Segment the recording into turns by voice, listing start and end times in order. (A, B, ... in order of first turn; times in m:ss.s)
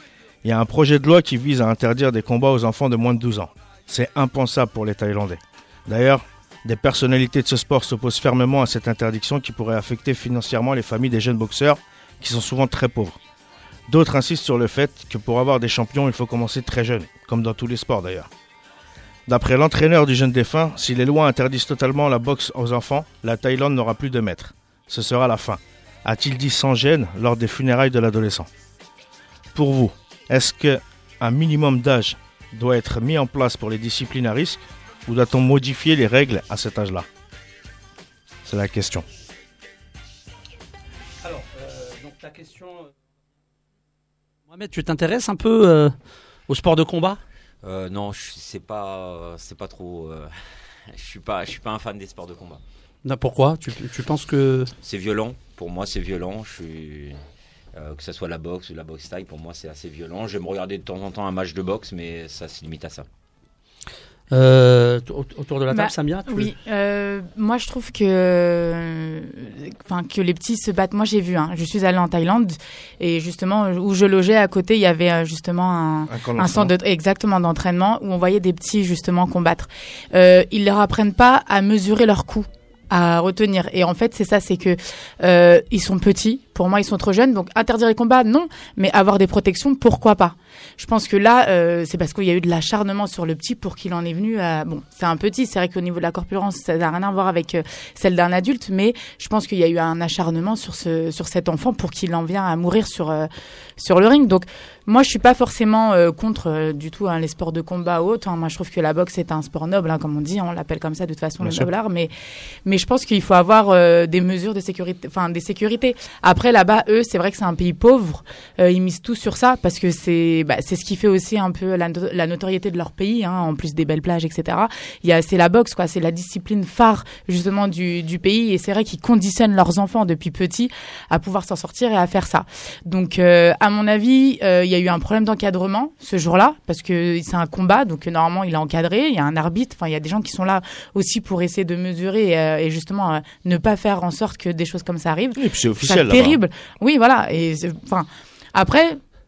0:00.4-0:13.2 A
0:13.9-0:18.3 A
0:19.3-0:28.5 A
0:29.5-0:37.1 A
0:38.4-0:39.0 A
0:41.2-0:42.9 B
0:44.5-0:45.9 B
0:46.5-0:47.2 B
0:47.6-0:50.3 C
0:50.9-0:52.6 C
0:53.0-0:54.7 B
0:54.8-0:57.2 C
0:57.7-1:03.1 C
1:04.3-1:06.5 B
1:05.7-1:52.1 D
1:16.1-1:16.7 A
1:51.4-1:51.7 A
1:52.6-2:29.0 D
2:25.4-2:26.4 A